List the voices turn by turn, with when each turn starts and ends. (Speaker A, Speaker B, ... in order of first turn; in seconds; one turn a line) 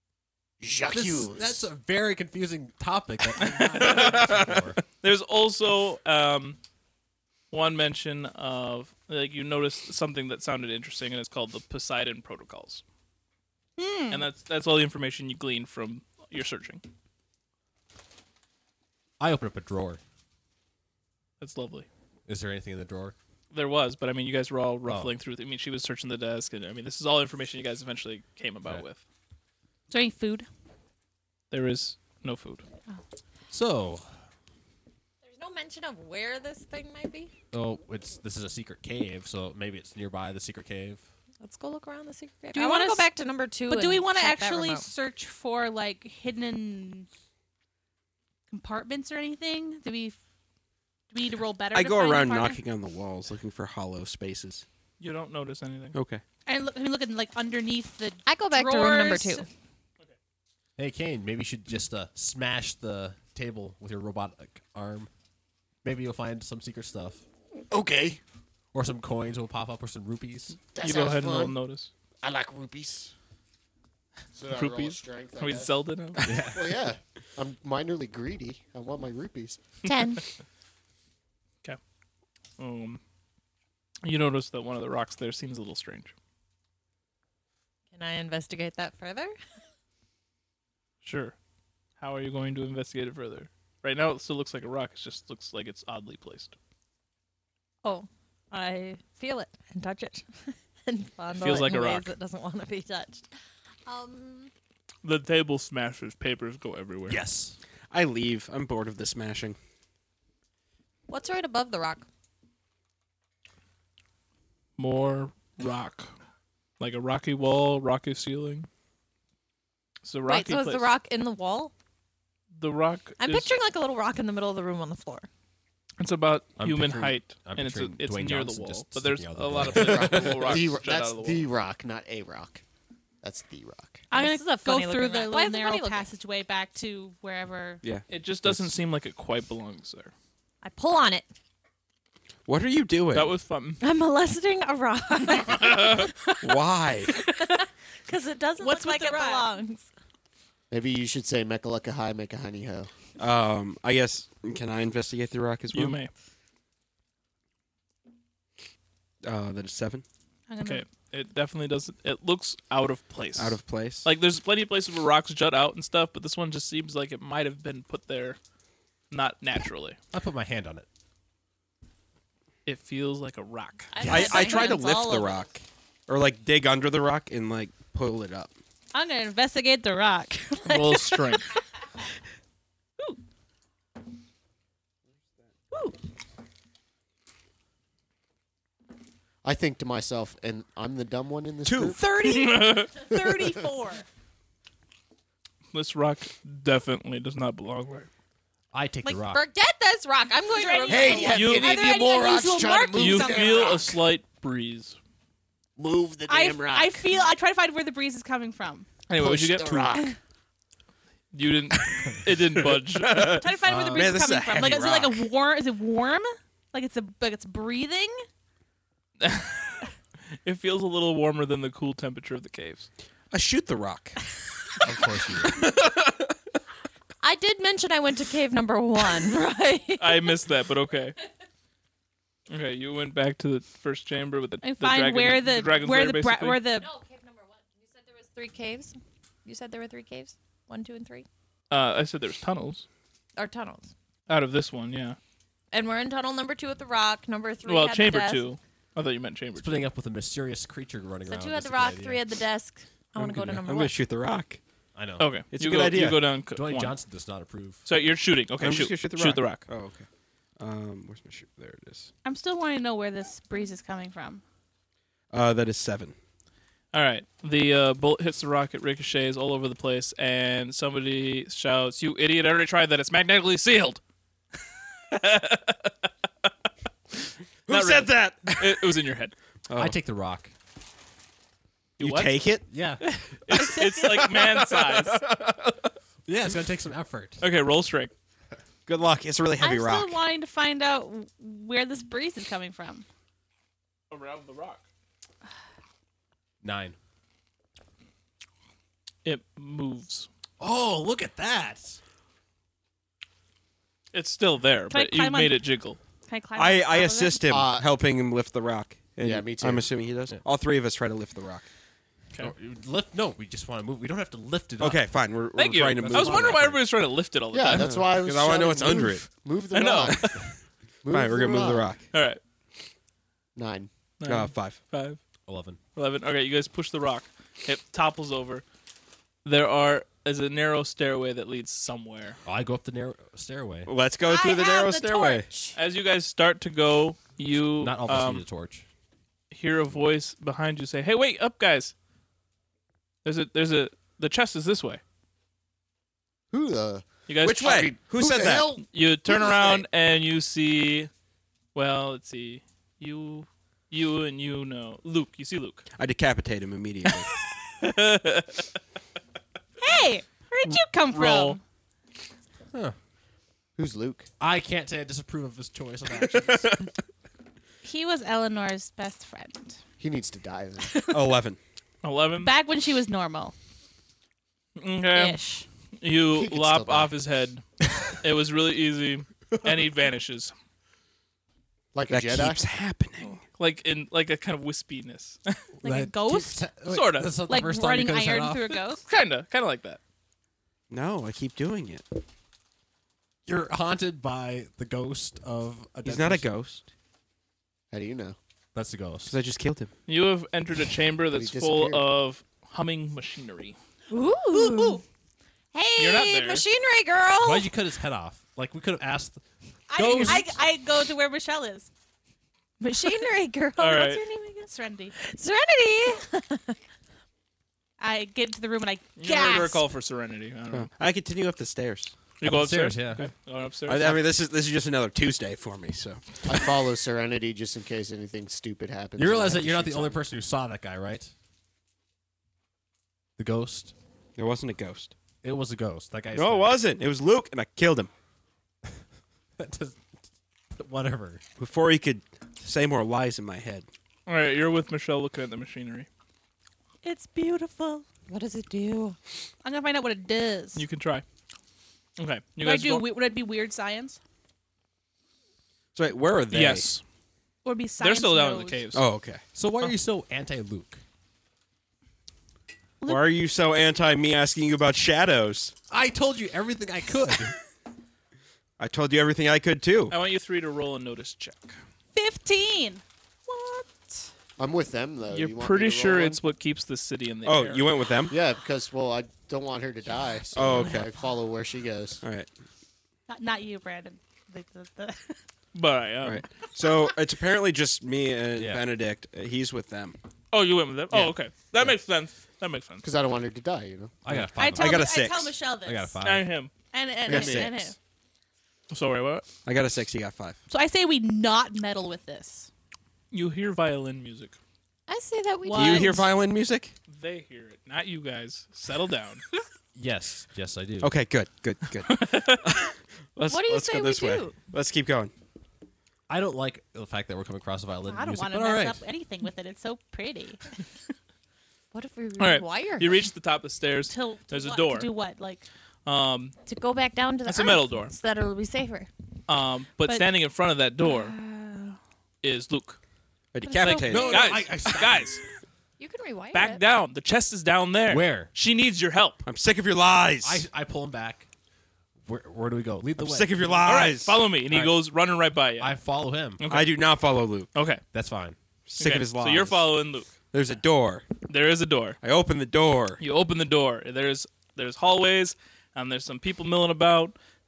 Speaker A: 0.6-1.7
Speaker B: 0.9-4.8
Speaker C: 3.4-4.3
Speaker C: 5.0-6.6
Speaker C: 7.5-12.8
Speaker D: 13.8-14.3
Speaker C: 14.1-16.8
Speaker B: 19.2-20.0
Speaker C: 21.4-21.9
Speaker B: 22.2-23.1
Speaker C: 23.5-29.0
Speaker B: 24.9-25.1
Speaker D: 29.9-30.5
Speaker C: 31.5-32.6
Speaker B: 33.5-34.1
Speaker E: 35.2-37.3
Speaker B: 37.5-41.0
Speaker E: 41.4-44.9
Speaker D: 42.5-43.1
Speaker D: 43.6-47.1
Speaker D: 48.5-50.2
Speaker D: 51.1-52.6
Speaker F: 51.7-54.6
Speaker C: 55.0-56.0
Speaker F: 55.9-56.2
Speaker D: 56.5-59.5
Speaker E: 58.2-59.5
Speaker B: 60.8-65.1
Speaker B: 65.8-67.2
Speaker A: 67.7-68.2
Speaker B: 68.7-70.6
Speaker A: 70.7-71.6
Speaker C: 70.8-71.9
Speaker A: 72.2-73.1
Speaker A: 74.3-79.6
Speaker C: 74.5-76.2
Speaker B: 76.2-76.6
Speaker E: 79.8-80.2
Speaker C: 82.6-83.0
Speaker C: 84.0-86.1
Speaker E: 87.9-89.3
Speaker C: 91.0-91.4
Speaker C: 92.0-96.5
Speaker E: 97.8-103.3
Speaker C: 101.3-102.1
Speaker E: 103.9-104.5
Speaker C: 105.0-107.2
Speaker B: 107.1-107.6
Speaker F: 107.9-109.6
Speaker E: 111.1-112.0
Speaker C: 114.8-116.1
Speaker C: 116.8-118.7
Speaker C: 120.0-120.9
Speaker E: 120.2-121.7
Speaker C: 122.6-123.6
Speaker E: 123.2-125.3
Speaker C: 126.0-131.5
Speaker B: 126.6-130.5
Speaker A: 129.6-132.6
Speaker A: 133.2-134.1
Speaker D: 134.1-137.8
Speaker E: 134.1-136.1
Speaker F: 137.8-138.7
Speaker C: 138.1-140.1
Speaker E: 140.6-141.2
Speaker F: 142.4-143.3
Speaker C: 143.1-143.8
Speaker E: 143.8-146.1
Speaker C: 145.6-146.1
Speaker F: 146.4-147.1
Speaker D: 147.1-147.6
Speaker E: 147.4-149.9
Speaker D: 148.6-149.5
Speaker A: 150.7-152.9
Speaker F: 153.2-156.0
Speaker C: 155.7-156.1
Speaker F: 159.2-160.1
Speaker D: 160.5-160.8
Speaker C: 160.6-168.4
Speaker F: 163.4-164.1
Speaker C: 169.1-170.0
Speaker B: 170.1-170.9
Speaker C: 172.7-174.1
Speaker E: 173.9-175.3
Speaker D: 174.1-175.0
Speaker F: 174.1-178.6
Speaker D: 178.9-181.4
Speaker C: 180.7-181.5
Speaker A: 189.4-192.0
Speaker F: 191.6-192.0
Speaker D: 192.0-194.1
Speaker E: 192.1-193.1
Speaker C: 192.2-192.9
Speaker A: 193.1-193.5
Speaker C: 195.7-198.1
Speaker B: 198.7-199.4
Speaker E: 199.2-203.2
Speaker D: 200.5-203.8
Speaker A: 200.9-203.9
Speaker C: 201.3-201.8
Speaker C: 202.9-205.0
Speaker A: 205.8-207.1
Speaker D: 206.3-208.9
Speaker C: 209.1-209.9
Speaker A: 209.1-210.1
Speaker C: 211.3-213.3
Speaker F: 212.8-215.3
Speaker D: 213.2-218.2
Speaker B: 213.7-214.1
Speaker C: 219.2-219.9
Speaker C: 220.4-222.9
Speaker F: 223.3-224.2
Speaker B: 224.8-225.6
Speaker F: 225.5-226.3
Speaker E: 227.2-230.4
Speaker C: 230.0-231.2
Speaker C: 232.5-236.6
Speaker D: 234.6-236.9
Speaker E: 236.8-241.2
Speaker C: 241.7-242.9
Speaker E: 243.4-243.9
Speaker C: 244.3-245.2
Speaker E: 245.7-248.5
Speaker C: 247.6-249.9
Speaker B: 249.6-252.2
Speaker E: 251.2-253.9
Speaker B: 253.2-253.6
Speaker F: 253.6-254.6
Speaker B: 254.9-255.3
Speaker C: 255.2-257.0
Speaker F: 255.5-256.3
Speaker B: 256.5-257.8
Speaker C: 257.9-259.6
Speaker F: 258.6-260.1
Speaker F: 260.6-262.1
Speaker D: 262.2-264.4
Speaker F: 265.3-266.1
Speaker C: 266.9-274.0
Speaker C: 275.1-276.1
Speaker F: 277.7-278.9
Speaker C: 277.7-279.3
Speaker F: 279.7-280.0
Speaker B: 279.7-280.5
Speaker C: 282.0-282.4
Speaker F: 282.0-282.6
Speaker B: 282.7-283.0
Speaker C: 283.0-285.2
Speaker F: 283.5-285.9
Speaker D: 283.6-284.4
Speaker B: 286.2-287.4
Speaker C: 287.4-288.1
Speaker F: 288.9-290.2
Speaker D: 289.6-293.1
Speaker C: 294.1-294.8
Speaker B: 296.6-296.9
Speaker C: 299.2-300.3
Speaker B: 300.6-302.0
Speaker C: 304.1-306.0
Speaker D: 304.9-305.6
Speaker D: 306.2-307.6
Speaker F: 306.6-311.7
Speaker A: 307.5-307.9
Speaker A: 309.2-309.9
Speaker B: 312.4-315.1
Speaker F: 314.8-316.6
Speaker C: 315.6-318.0
Speaker B: 316.0-316.8
Speaker A: 317.5-320.5
Speaker F: 317.8-319.3
Speaker C: 319.7-320.5
Speaker A: 321.0-321.9
Speaker F: 321.1-322.0
Speaker C: 322.1-322.4
Speaker A: 323.6-323.9
Speaker C: 324.2-325.2
Speaker F: 324.2-324.8
Speaker B: 325.5-325.8
Speaker C: 325.9-328.6
Speaker C: 329.4-332.4
Speaker B: 332.4-333.9
Speaker F: 333.9-335.5
Speaker D: 334.2-335.7
Speaker C: 335.7-338.4
Speaker B: 337.8-338.9
Speaker C: 339.5-341.9
Speaker C: 343.2-345.0
Speaker A: 346.5-349.8
Speaker C: 347.3-347.9
Speaker F: 347.4-348.8
Speaker C: 348.8-351.1
Speaker C: 351.7-355.9
Speaker F: 355.9-357.3
Speaker C: 357.8-358.7
Speaker D: 359.8-361.6
Speaker C: 360.6-361.6
Speaker B: 362.7-363.0
Speaker A: 363.8-364.3
Speaker B: 364.4-366.7
Speaker F: 366.3-366.9
Speaker D: 367.8-369.8
Speaker A: 370.0-371.0
Speaker D: 370.9-371.2
Speaker F: 371.1-371.6
Speaker C: 372.0-372.5
Speaker D: 372.4-373.6
Speaker C: 374.8-375.4
Speaker D: 375.1-375.6
Speaker C: 376.0-380.5
Speaker A: 376.3-377.1
Speaker A: 381.9-382.6
Speaker F: 382.1-383.4
Speaker C: 383.6-385.6
Speaker D: 385.8-386.7
Speaker B: 385.8-388.8
Speaker C: 386.9-387.4
Speaker D: 387.4-389.0
Speaker C: 389.0-390.0
Speaker F: 390.9-392.1
Speaker B: 393.4-396.5
Speaker F: 396.0-396.9
Speaker A: 397.9-398.4
Speaker B: 398.7-399.4
Speaker F: 399.3-399.9
Speaker C: 400.1-403.8
Speaker A: 401.3-402.1
Speaker E: 404.1-405.0
Speaker D: 404.5-405.0
Speaker E: 405.7-407.7
Speaker C: 406.0-406.7
Speaker B: 407.4-410.5
Speaker D: 409.9-411.9
Speaker C: 410.0-410.4
Speaker E: 412.8-416.8
Speaker C: 413.8-414.2
Speaker D: 414.6-415.1
Speaker D: 418.0-419.8
Speaker C: 419.2-420.9
Speaker F: 420.7-422.1
Speaker C: 422.4-424.2
Speaker B: 422.4-423.2
Speaker F: 423.9-426.5
Speaker A: 426.4-430.2
Speaker B: 429.2-431.3
Speaker B: 433.4-433.9
Speaker F: 434.4-435.1
Speaker B: 435.4-436.8
Speaker F: 436.3-438.1
Speaker B: 439.6-440.1
Speaker B: 440.7-441.4
Speaker F: 441.6-443.9
Speaker C: 444.3-446.1
Speaker D: 447.0-448.1
Speaker E: 448.3-449.1
Speaker D: 449.6-450.8
Speaker C: 450.7-451.2
Speaker C: 452.2-453.1
Speaker D: 452.6-454.2
Speaker F: 455.9-456.9
Speaker C: 456.5-457.0
Speaker D: 457.6-458.9
Speaker C: 458.0-459.1
Speaker F: 458.9-459.4
Speaker B: 459.5-461.0
Speaker F: 463.1-465.7
Speaker B: 465.9-467.5
Speaker F: 468.8-470.1
Speaker C: 470.1-471.8
Speaker D: 472.1-474.3
Speaker A: 474.6-476.4
Speaker C: 475.3-477.9
Speaker F: 477.4-478.4
Speaker A: 478.3-482.2
Speaker F: 480.6-481.0
Speaker F: 482.2-482.5
Speaker D: 483.3-485.4
Speaker C: 485.7-486.4
Speaker F: 486.2-490.2
Speaker B: 488.6-488.9
Speaker C: 490.5-493.1
Speaker A: 493.0-494.1
Speaker B: 494.2-495.2
Speaker F: 494.3-495.6
Speaker D: 494.6-496.2
Speaker B: 495.8-496.5
Speaker C: 496.2-496.7
Speaker D: 496.9-497.9
Speaker F: 497.3-497.9
Speaker C: 498.9-499.4
Speaker F: 499.6-500.6
Speaker D: 500.7-502.7
Speaker C: 503.3-504.6
Speaker E: 505.1-506.3
Speaker D: 505.6-506.3
Speaker F: 505.7-506.9
Speaker C: 507.1-509.4
Speaker B: 509.9-511.1
Speaker F: 511.0-515.3
Speaker C: 512.1-512.6
Speaker E: 513.5-514.5
Speaker D: 513.7-514.4
Speaker B: 516.3-519.0
Speaker D: 518.0-520.6
Speaker E: 521.9-523.3
Speaker C: 522.4-525.1
Speaker D: 524.1-525.6
Speaker C: 526.0-526.6
Speaker E: 526.6-529.1
Speaker C: 527.5-528.1
Speaker C: 529.5-531.4
Speaker D: 530.0-530.3
Speaker D: 531.3-531.9
Speaker C: 532.4-533.0
Speaker F: 533.5-534.5
Speaker D: 533.6-534.4
Speaker C: 533.8-535.4
Speaker B: 534.1-535.3
Speaker E: 536.0-536.8
Speaker C: 536.5-539.4
Speaker B: 538.1-538.5
Speaker F: 539.4-540.6
Speaker B: 540.4-541.5
Speaker B: 542.2-544.1
Speaker F: 543.2-544.4
Speaker C: 543.9-545.9
Speaker B: 545.8-546.6
Speaker C: 546.6-547.0
Speaker F: 546.6-547.7
Speaker C: 547.7-548.0
Speaker B: 548.1-548.6
Speaker F: 548.9-549.9
Speaker C: 549.0-550.3
Speaker F: 550.5-551.3
Speaker C: 551.5-552.2
Speaker F: 552.2-553.2
Speaker C: 553.2-557.4